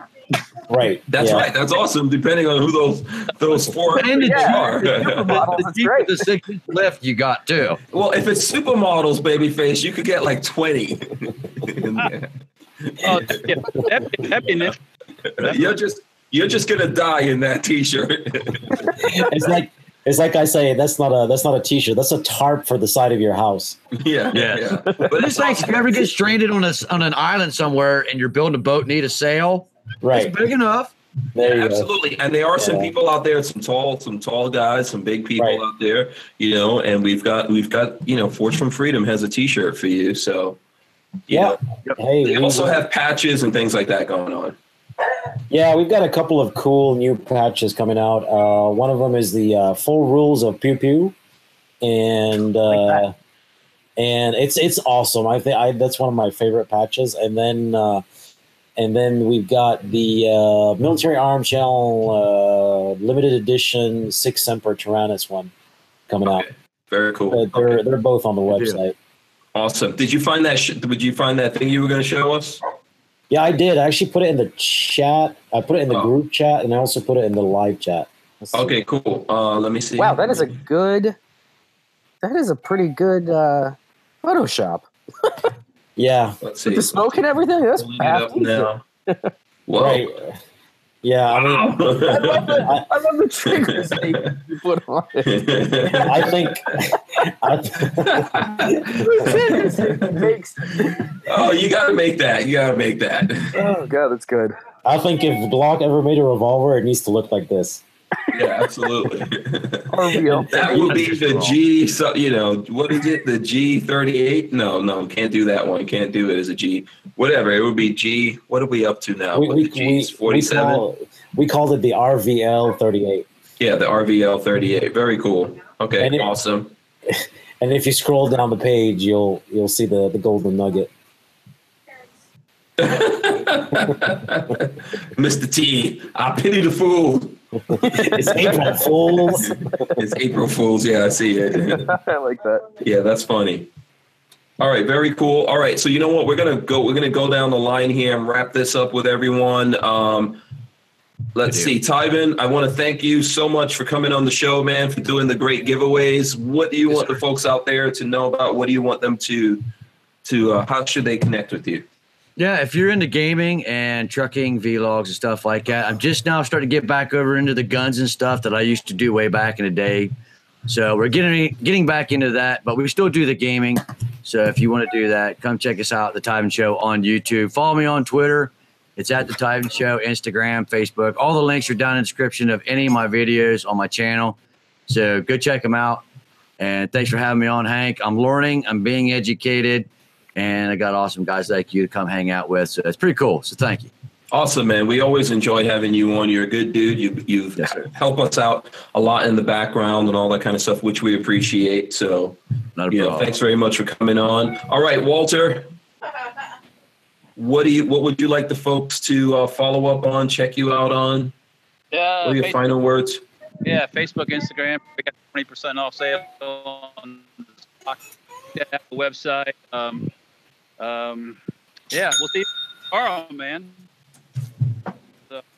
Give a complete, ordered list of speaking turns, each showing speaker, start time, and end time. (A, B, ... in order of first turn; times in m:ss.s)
0:00.7-0:01.5 A
0:01.1-0:05.5 B
0:03.9-0:07.8 C
0:04.1-0:06.3 D
0:07.9-0:13.6 B
0:13.0-0:14.8 E
0:14.2-0:14.7 B
0:15.2-0:19.5 B
0:15.4-0:15.8 C
0:18.9-0:23.8 A
0:23.9-0:26.0 B
0:24.3-0:30.9 C
0:30.0-0:30.3 A
0:31.3-0:31.9 A
0:31.4-0:40.6 B
0:32.6-0:32.9 A
0:41.3-0:41.6 B
0:41.3-0:42.8 A
0:42.2-0:44.6 B
0:45.5-0:51.1 A
0:51.8-0:53.1 A
0:52.7-0:53.0 D
0:54.0-0:58.0 A
0:58.8-1:05.5 A
1:06.1-1:06.4 A
1:06.2-1:07.8 B
1:07.3-1:08.9 A
1:08.5-1:08.8 C
1:09.5-1:12.6 B
1:13.3-1:18.7 A
1:18.5-1:20.5 B
1:20.0-1:21.2 D
1:22.2-1:25.5 D
1:26.0-1:26.4 A
1:26.4-1:27.0 B
1:26.7-1:29.3 D
1:27.8-1:28.8 B
1:29.7-1:30.1 B
1:29.8-1:30.4 A
1:31.0-1:32.8 A
1:31.3-1:32.7 B
1:32.0-1:36.2 D
1:33.4-1:34.4 B
1:35.2-1:36.6 B
1:35.9-1:38.4 A
1:38.0-1:43.7 B
1:38.9-1:41.1 D
1:43.5-1:44.5 D
1:44.8-1:47.8 A
1:48.3-2:00.8 B
1:49.9-1:51.6 D
1:50.9-1:51.5 C
1:59.3-2:03.2 A
2:03.6-2:06.7 B
2:06.0-2:06.3 A
2:07.1-2:10.9 A
2:12.8-2:17.4 B
2:17.8-2:19.4 D
2:17.8-2:19.5 A
2:19.3-2:21.9 B
2:21.6-2:22.7 D
2:22.8-2:23.7 B
2:24.6-2:30.4 B
2:31.3-2:39.6 B
2:31.4-2:31.7 C
2:36.9-2:37.2 C
2:40.2-2:41.8 B
2:42.4-2:50.1 C
2:50.6-3:06.0 C
3:06.6-3:13.9 C
3:14.3-3:22.4 B
3:17.6-3:17.9 C
3:22.8-3:23.4 C
3:22.9-3:25.7 B
3:27.4-3:31.3 B
3:31.9-3:32.7 E
3:32.2-3:33.2 B
3:33.6-3:38.0 E
3:38.5-3:40.1 E
3:40.8-3:41.4 E
3:41.9-3:43.7 E